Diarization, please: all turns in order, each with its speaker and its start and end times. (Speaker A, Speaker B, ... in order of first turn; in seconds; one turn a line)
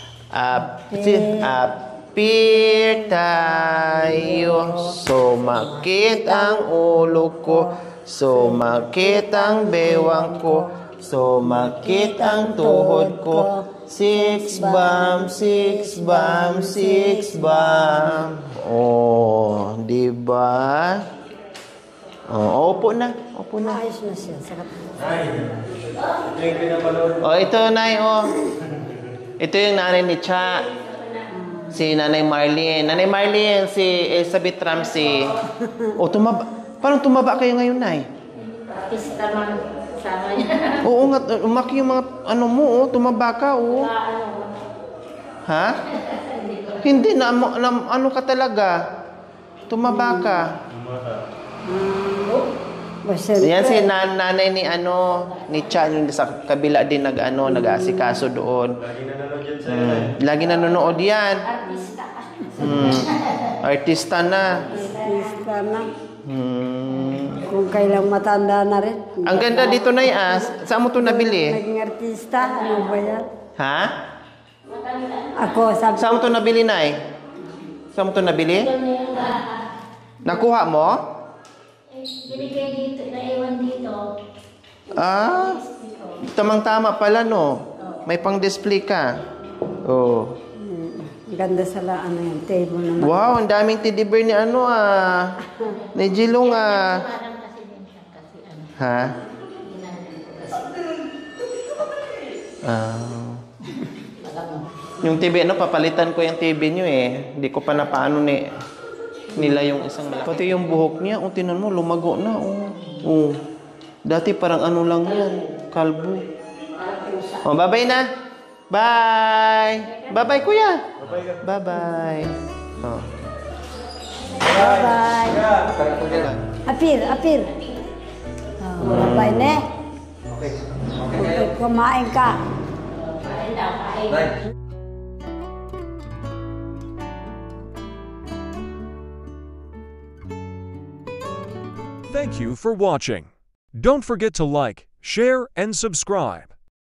Speaker A: 0.3-21.0
Speaker B: 0.5-1.5
Speaker B: 4.0-7.7
Speaker B: 8.3-10.7
Speaker B: 11.4-18.3
Speaker A: 22.3-23.8
Speaker B: 23.6-25.4
Speaker C: 26.3-27.1
Speaker A: 27.2-28.4
Speaker A: 29.4-30.6
Speaker B: 31.3-31.7
Speaker A: 31.7-35.4
Speaker B: 35.6-35.9
Speaker A: 36.0-38.0
Speaker D: 38.7-40.8
Speaker A: 40.8-43.9
Speaker D: 44.0-44.5
Speaker A: 45.5-45.9
Speaker A: 46.7-48.8
Speaker A: 49.7-50.5
Speaker B: 49.9-50.4
Speaker B: 51.6-52.4
Speaker B: 53.0-53.9
Speaker A: 53.4-58.7
Speaker B: 57.5-58.2
Speaker C: 58.9-60.0
Speaker A: 59.6-61.5
Speaker A: 62.5-64.7
Speaker B: 64.7-65.9
Speaker A: 66.2-67.5
Speaker B: 67.3-70.4
Speaker A: 69.2-71.6
Speaker B: 71.0-73.2
Speaker A: 73.6-73.9
Speaker B: 75.3-76.3
Speaker A: 76.0-77.0
Speaker A: 77.9-78.8
Speaker D: 78.9-79.4
Speaker A: 80.2-81.0
Speaker D: 82.0-84.1
Speaker A: 84.9-85.6
Speaker D: 85.7-86.1
Speaker A: 86.2-89.1
Speaker A: 89.8-90.4
Speaker B: 90.6-93.3
Speaker A: 93.0-97.1
Speaker D: 96.7-98.7
Speaker A: 98.8-99.1
Speaker D: 99.7-100.7
Speaker A: 102.6-103.4
Speaker D: 104.3-104.6
Speaker A: 105.0-108.5
Speaker A: 109.3-113.4
Speaker B: 109.4-109.7
Speaker A: 114.0-116.2
Speaker A: 117.4-118.0
Speaker A: 118.7-123.1
Speaker B: 124.4-125.6
Speaker A: 125.8-126.5
Speaker B: 126.7-127.5
Speaker B: 128.6-129.6
Speaker A: 128.8-129.5
Speaker B: 131.0-132.4
Speaker D: 133.2-134.2
Speaker E: 142.1-146.5